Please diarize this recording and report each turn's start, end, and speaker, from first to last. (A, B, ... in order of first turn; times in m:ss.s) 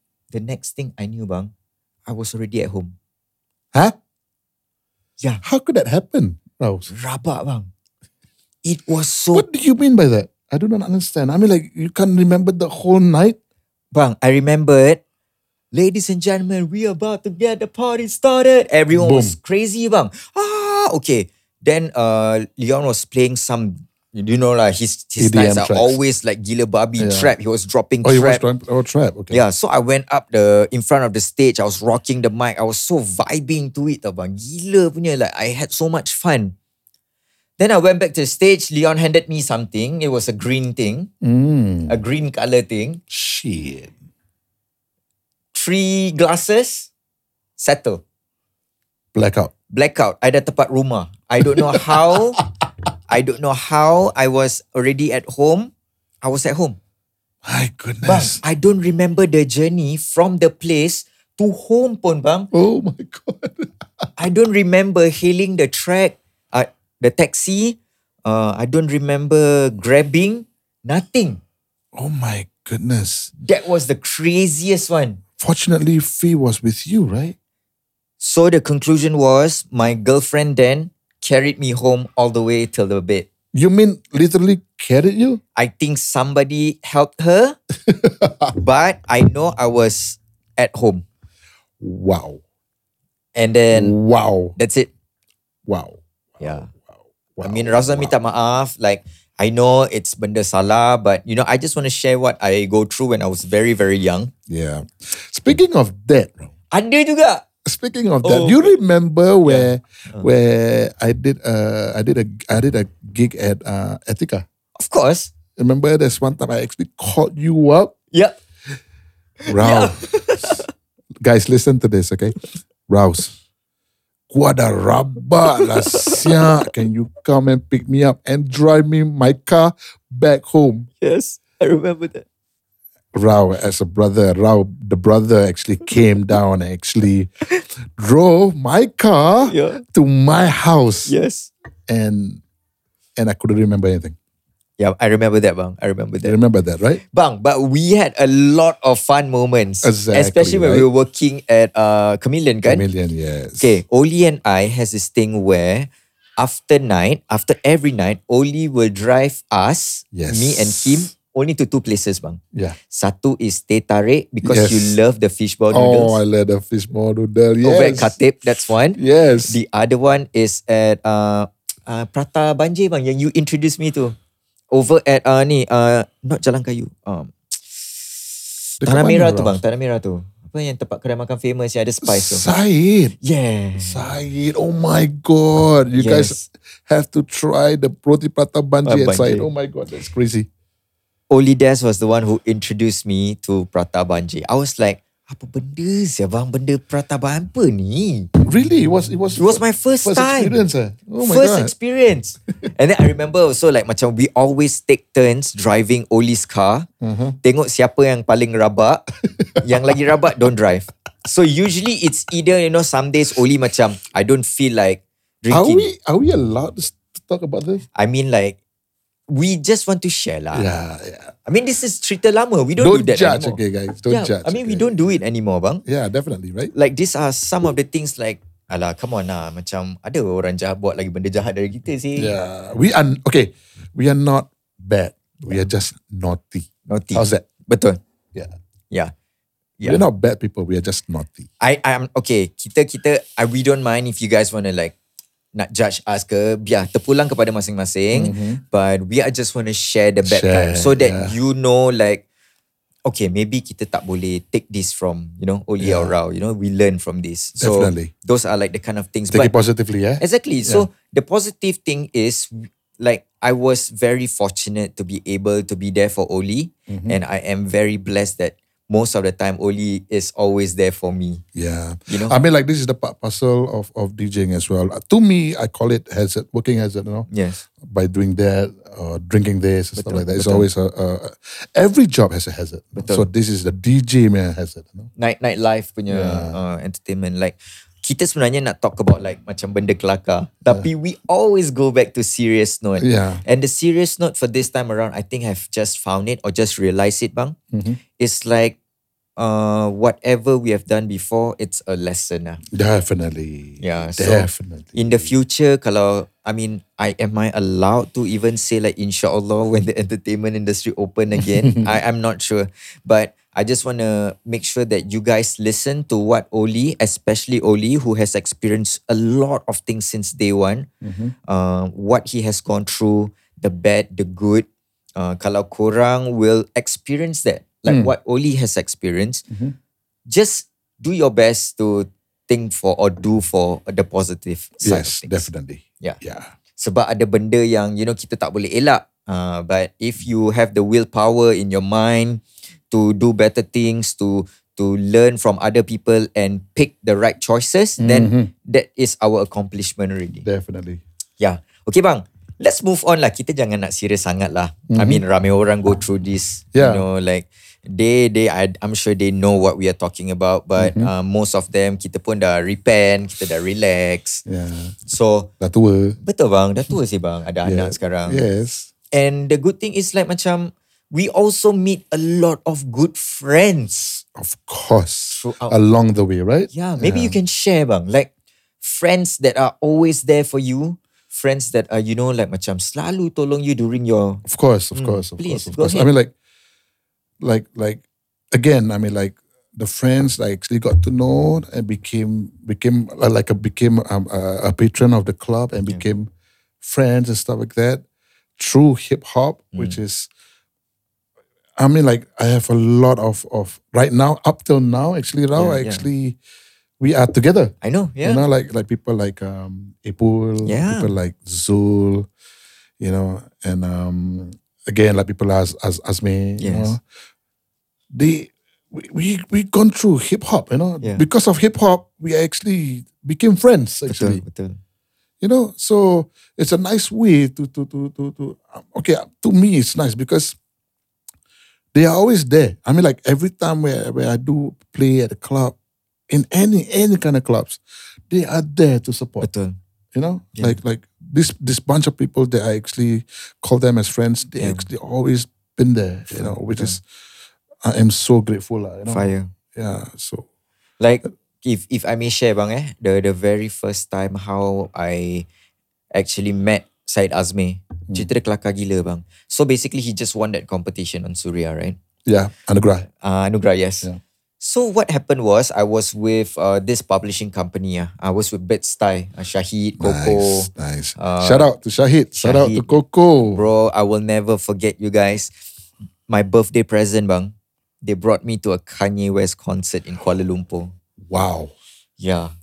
0:00.3-0:01.5 A
0:02.0-0:02.9 A
0:05.4-0:06.9 B
0:06.9-0:07.7 A
0:08.6-0:09.4 A
0:09.3-0:13.4 B
0:13.9-0:15.0 A
0:15.7-0:28.4 A
0:18.9-0:19.4 B
0:25.2-0:26.0 B
0:27.0-0:27.3 B
0:28.0-0:29.4 B
0:29.3-0:36.5 A
0:37.6-0:41.1 A
0:41.2-0:42.0 B
0:41.9-0:43.0 A
0:43.1-0:43.9 B
0:45.5-0:46.9 A
0:47.6-0:48.0 A
0:49.1-0:49.5 B
0:49.7-0:52.4 A
0:51.5-0:52.2 B
0:53.1-0:55.7 A
0:56.2-0:56.8 A
0:57.4-0:58.4 B
0:58.0-1:02.5 A
1:02.5-1:04.1 B
1:04.2-1:11.4 A
1:11.9-1:13.3 B
1:13.4-1:15.2 A
1:15.4-1:17.3 B
1:18.2-1:23.3 A
1:23.5-1:25.4 B
1:25.6-1:27.6 A
1:27.9-1:28.5 B
1:28.6-1:31.0 A
1:31.8-1:32.4 B
1:33.3-1:33.9 A
1:33.7-1:34.6 B
1:34.6-1:34.9 A
1:35.7-1:36.8 B
1:36.4-1:36.7 A
1:37.4-1:38.1 B
1:37.4-1:44.3 A
1:44.5-1:46.5 B
1:46.7-1:47.4 A
1:47.6-1:54.4 B
1:48.2-1:48.7 A
1:49.4-1:50.3 A
1:54.8-1:55.3 A
1:55.6-1:57.9 B
1:59.4-2:00.6 A
1:59.4-2:00.5 B
2:01.2-2:03.4 B
2:04.3-2:10.9 B
2:05.6-2:06.5 A
2:11.0-2:12.2 A
2:13.1-2:17.3 B
2:18.0-2:21.1 B
2:19.5-2:19.8 A
2:21.0-2:21.5 A
2:21.9-2:22.4 B
2:23.2-2:24.2 B
2:24.8-2:26.4 A
2:26.2-2:27.0 B
2:27.1-2:32.8 A
2:29.8-2:30.9 B
2:32.6-2:33.8 B
2:33.6-2:46.2 A
2:40.1-2:41.1 B
2:44.4-2:45.0 B
2:45.7-2:49.6 B
2:47.6-2:54.2 A
2:54.7-2:58.0 A
2:58.8-3:02.4 A
2:58.8-2:59.6 B
3:02.0-3:03.2 B
3:03.2-3:04.0 A
3:03.8-3:10.5 B
3:06.0-3:06.4 A
3:08.8-3:09.5 A
3:11.3-3:18.3 A
3:18.4-3:21.7 B
3:19.4-3:20.6 A
3:21.2-3:26.9 A
3:27.0-3:27.4 B
3:27.4-3:29.1 A
3:29.4-3:29.9 B
3:29.6-3:35.8 A
3:35.5-3:37.8 B
3:37.9-3:38.6 A
3:39.3-3:40.7 A
3:40.5-3:41.3 B
3:41.4-3:45.8 A
3:42.8-3:44.9 B
3:45.8-3:46.7 B
3:46.7-3:52.3 A
3:52.2-3:57.5 B
3:56.9-3:58.0 A
3:59.8-4:01.5 B
4:01.6-4:04.9 A
4:05.5-4:12.2 A
4:08.1-4:08.6 B
4:10.2-4:11.3 B
4:13.0-4:19.5 A
4:15.8-4:16.1 B
4:17.6-4:18.1 B
4:19.3-4:20.9 B
4:20.2-4:31.4 A
4:26.9-4:27.2 B
4:31.5-4:37.3 B
4:32.1-4:32.3 A
4:37.3-4:37.6 A
4:37.8-4:45.1 B
4:40.0-4:40.7 A
4:43.0-4:43.3 A
4:45.2-4:57.6 A
4:46.1-4:46.6 B
4:53.0-4:53.4 B
4:57.7-4:58.0 B
4:58.2-4:58.8 A
4:59.4-5:02.6 A
5:02.7-5:05.3 B
5:03.8-5:20.9 A
5:11.4-5:11.9 B
5:21.0-5:21.3 B
5:21.5-5:29.4 A
5:27.9-5:28.1 B
5:30.3-5:35.5 A
5:34.8-5:36.5 B
5:36.8-5:50.4 A
5:48.0-5:48.5 B
5:50.4-5:51.0 B
5:51.4-6:04.4 A
5:54.9-5:55.2 B
5:56.7-5:57.0 B
6:00.8-6:01.1 B
6:04.4-6:05.0 B
6:05.1-6:05.5 A
6:05.6-6:06.2 B
6:06.2-6:08.4 A
6:07.6-6:08.9 B
6:09.1-6:14.2 A
6:14.2-6:17.4 B
6:15.3-6:15.8 A
6:16.7-6:18.3 A
6:18.8-6:26.1 A
6:24.4-6:26.3 B
6:27.4-6:36.3 B
6:36.8-6:38.0 B
6:38.6-6:40.3 B
6:41.8-6:46.4 B
6:45.5-6:46.1 A
6:47.0-6:52.3 B
6:47.8-6:48.4 A
6:50.6-6:51.1 A
6:53.0-6:57.0 B
6:56.6-6:57.0 A
6:58.1-7:04.4 B
7:04.1-7:04.8 A
7:05.4-7:10.6 B
7:11.9-7:15.8 B
7:16.3-7:19.5 B
7:19.4-7:19.8 A
7:20.1-7:27.0 B
7:24.6-7:24.8 A
7:26.3-7:27.0 A
7:27.8-7:30.4 B
7:29.1-7:29.5 A
7:31.0-7:35.4 A
7:36.1-7:42.0 A
7:42.2-7:43.1 B
7:43.2-7:44.1 A
7:44.6-7:51.7 A
7:50.0-7:53.6 B
7:52.4-7:52.9 A
7:53.5-7:55.5 A
7:56.3-8:00.9 A
8:01.3-8:01.7 B
8:02.2-8:02.5 A